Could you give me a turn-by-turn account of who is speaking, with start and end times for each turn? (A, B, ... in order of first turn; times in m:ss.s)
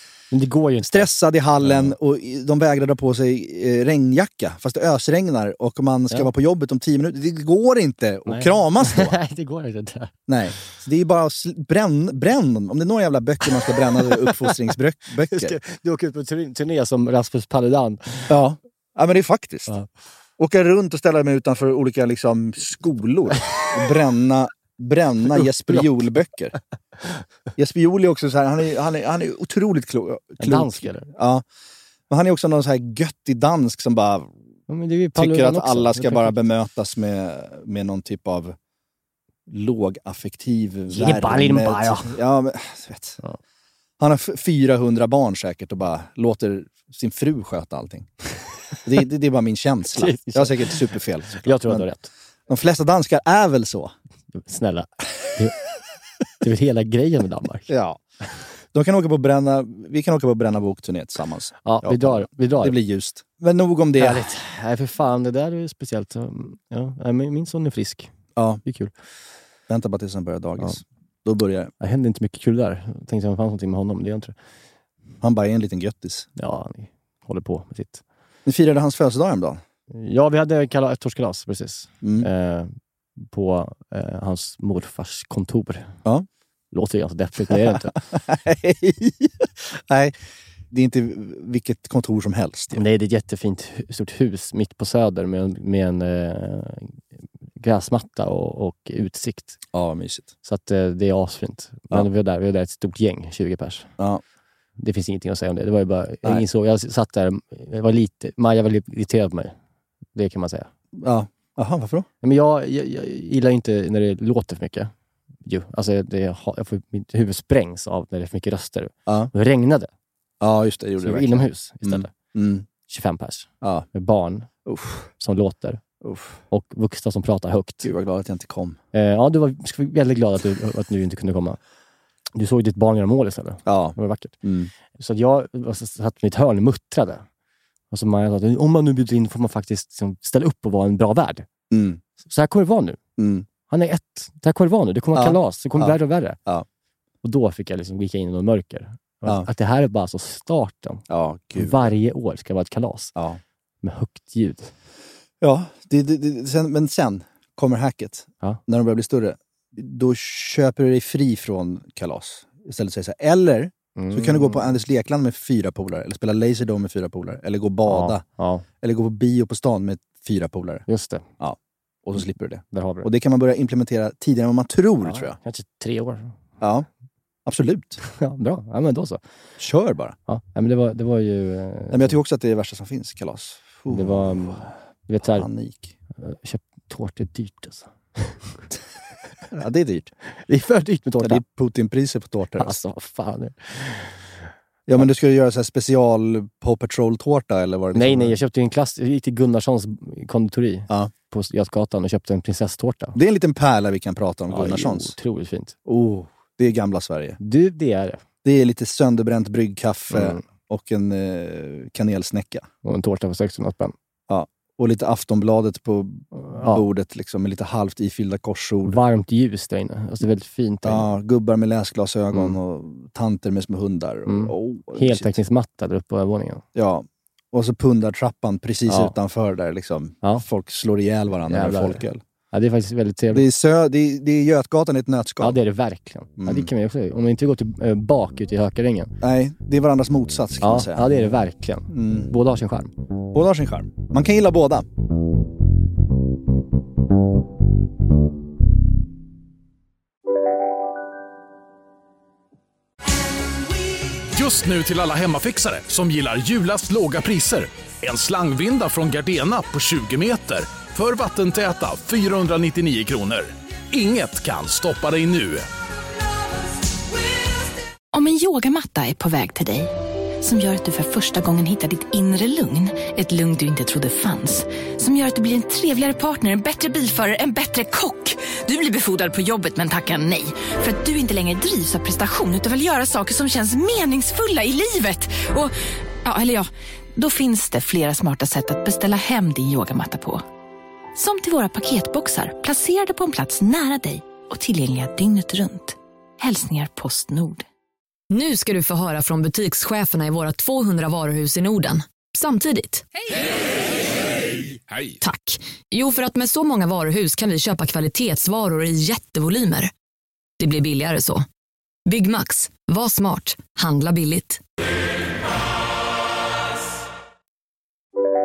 0:00.3-0:01.1 A
0:00.9-0:09.1 B
0:01.6-0:01.9 A
0:08.3-0:10.1 A
0:10.3-0:15.6 B
0:14.0-0:14.5 A
0:15.3-0:18.3 A
0:18.3-0:19.7 B
0:20.4-0:26.6 B
0:25.4-0:26.0 A
0:27.6-0:31.4 B
0:30.4-0:31.1 A
0:32.1-0:34.3 B
0:34.7-0:36.4 A
0:35.1-0:38.6 B
0:39.5-0:43.2 B
0:40.9-0:42.1 A
0:44.0-0:48.1 B
0:48.8-0:51.9 B
0:50.0-0:50.8 A
0:51.4-0:52.1 A
0:52.5-0:53.9 B
0:54.3-0:55.6 A
0:56.4-0:57.7 A
0:57.7-0:58.0 B
0:58.7-1:04.2 B
1:01.6-1:02.8 A
1:04.0-1:08.1 A
1:08.4-1:08.6 B
1:08.6-1:08.9 A
1:09.7-1:11.7 B
1:11.8-1:14.3 A
1:15.2-1:16.3 B
1:16.4-1:18.0 A
1:18.5-1:19.6 B
1:19.9-1:26.0 A
1:22.0-1:22.3 B
1:26.7-1:27.9 A
1:27.5-1:30.1 B
1:30.7-1:32.8 B
1:32.7-1:37.0 A
1:37.6-1:39.6 A
1:39.7-1:40.3 B
1:40.4-1:43.9 A
1:44.8-1:49.5 A
1:50.1-1:50.7 A
1:51.0-1:52.1 B
1:52.2-1:54.9 A
1:55.5-1:59.9 A
1:59.1-1:59.3 B
2:00.4-2:02.7 B
2:01.0-2:02.1 A
2:02.9-2:04.5 A
2:04.6-2:05.1 B
2:05.2-2:05.8 A
2:06.0-2:06.4 B
2:06.5-2:07.9 A
2:07.8-2:08.8 B
2:08.9-2:11.6 A
2:12.4-2:14.4 A
2:13.7-2:14.7 B
2:15.0-2:17.2 A
2:17.9-2:21.5 A
2:21.7-2:22.0 B
2:22.3-2:23.0 A
2:23.2-2:23.5 B
2:23.7-2:26.4 A
2:25.1-2:26.7 B
2:27.2-2:31.0 A
2:31.1-2:31.9 B
2:31.6-2:33.1 A
2:33.1-2:33.4 B
2:33.8-2:34.7 A
2:35.4-2:48.2 B
2:44.0-2:44.6 A
2:47.9-2:48.6 A
2:48.8-2:50.9 B
2:50.9-2:51.2 A
2:51.4-2:55.4 B
2:52.7-2:53.1 A
2:55.0-2:56.3 A
2:56.6-2:56.9 B
2:57.5-2:58.0 B
2:58.0-2:59.2 A
2:59.6-3:00.2 B
3:00.3-3:02.1 A
3:01.9-3:05.9 B
3:03.9-3:05.5 A
3:06.2-3:08.6 A
3:09.5-3:10.1 B
3:10.5-3:11.4 A
3:11.2-3:12.8 B
3:12.6-3:14.2 A
3:14.9-3:18.4 B
3:18.0-3:23.2 A
3:23.1-3:25.1 B
3:24.5-3:25.8 A
3:25.9-3:27.4 B
3:27.4-3:28.2 A
3:28.4-3:32.7 B
3:30.1-3:30.4 A
3:32.8-3:33.9 A
3:34.3-3:39.0 B
3:36.4-3:36.8 A
3:38.8-3:41.1 A
3:40.8-3:45.4 B
3:44.3-3:46.6 A
3:46.8-3:52.2 B
3:48.9-3:49.1 A
3:51.5-3:53.5 A
3:53.3-3:55.6 B
3:55.4-3:59.1 A
3:56.4-3:56.7 B
3:59.2-4:01.3 B
4:00.6-4:02.9 A
4:01.9-4:02.3 B
4:03.3-4:04.9 B
4:14.3-4:25.7 C
4:28.1-4:50.4 D
4:51.1-4:57.7 D
4:58.3-5:03.0 E
5:04.9-5:05.2 C
5:05.2-5:09.9 E
5:10.6-5:11.4 E
5:12.1-5:14.6 E